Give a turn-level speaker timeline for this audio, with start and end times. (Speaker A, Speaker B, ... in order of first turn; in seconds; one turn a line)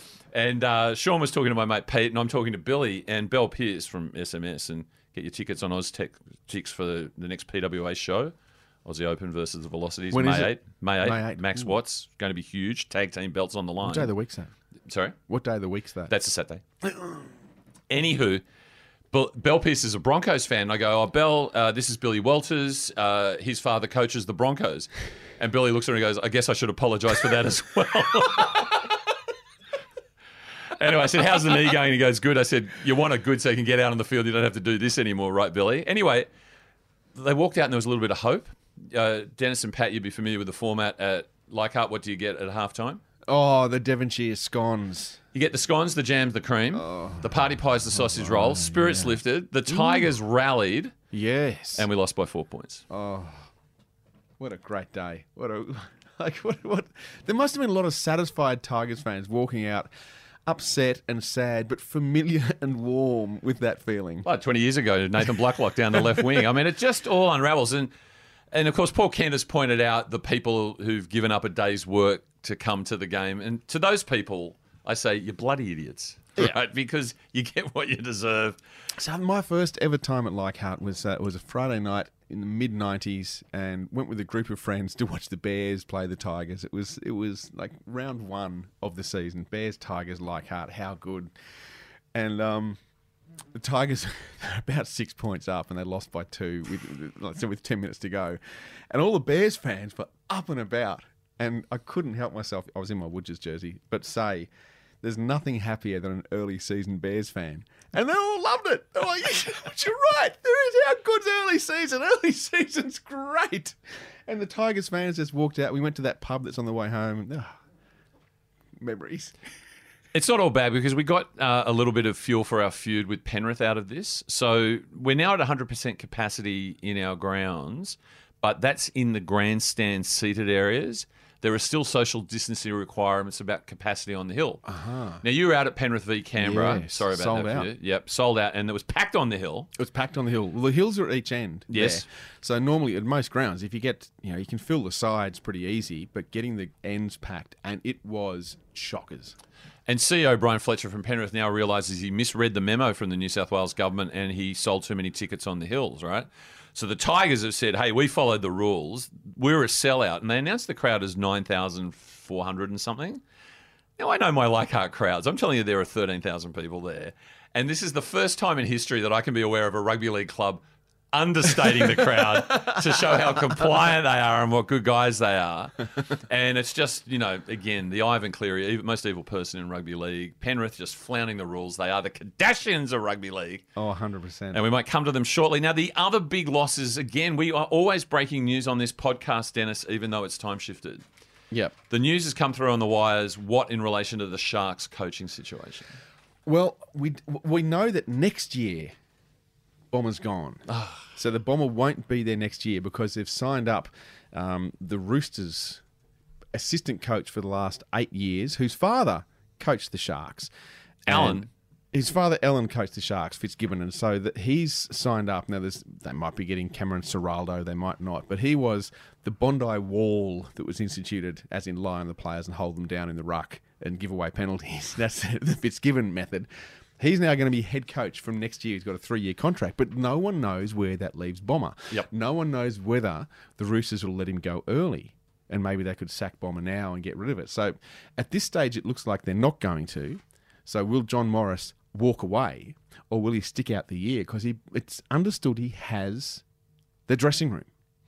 Speaker A: 0.3-8.3
Speaker A: 8.8-14.1
Speaker B: 10.1-11.7
Speaker B: 13.8-14.5
Speaker A: 14.9-15.2
Speaker B: 15.3-16.1
Speaker A: 16.1-16.6
Speaker A: 17.9-18.4
Speaker A: 19.1-28.8
Speaker A: 30.8-36.3
Speaker A: 37.1-43.0
Speaker B: 43.2-45.2
Speaker A: 45.3-50.9
Speaker B: 46.7-50.1
Speaker B: 51.1-51.9
Speaker A: 51.8-52.8
Speaker B: 52.9-53.5
Speaker B: 54.4-59.9
Speaker B: 60.5-64.3
Speaker A: 64.2-67.9
Speaker A: 68.5-78.6
Speaker B: 79.0-91.3
Speaker B: 92.1-92.8
Speaker B: 93.5-98.4
Speaker B: 98.9-104.5
Speaker B: 105.0-117.5
Speaker B: 118.8-119.3
Speaker A: 120.1-134.6
Speaker B: 134.6-135.2
Speaker A: 135.2-139.7
Speaker B: 136.4-137.7
Speaker B: 139.8-149.3
Speaker A: 141.7-142.0
Speaker A: 149.9-163.2
Speaker A: 164.0-183.6
Speaker B: 183.8-184.6
Speaker A: 184.5-191.0
Speaker A: 191.9-195.9
Speaker B: 196.4-198.9
Speaker B: 199.9-200.6
Speaker A: 200.7-201.0
Speaker B: 201.1-205.8
Speaker B: 206.5-210.5
Speaker A: 211.1-211.5
Speaker B: 211.1-226.5
Speaker B: 227.0-246.4
Speaker B: 247.1-247.7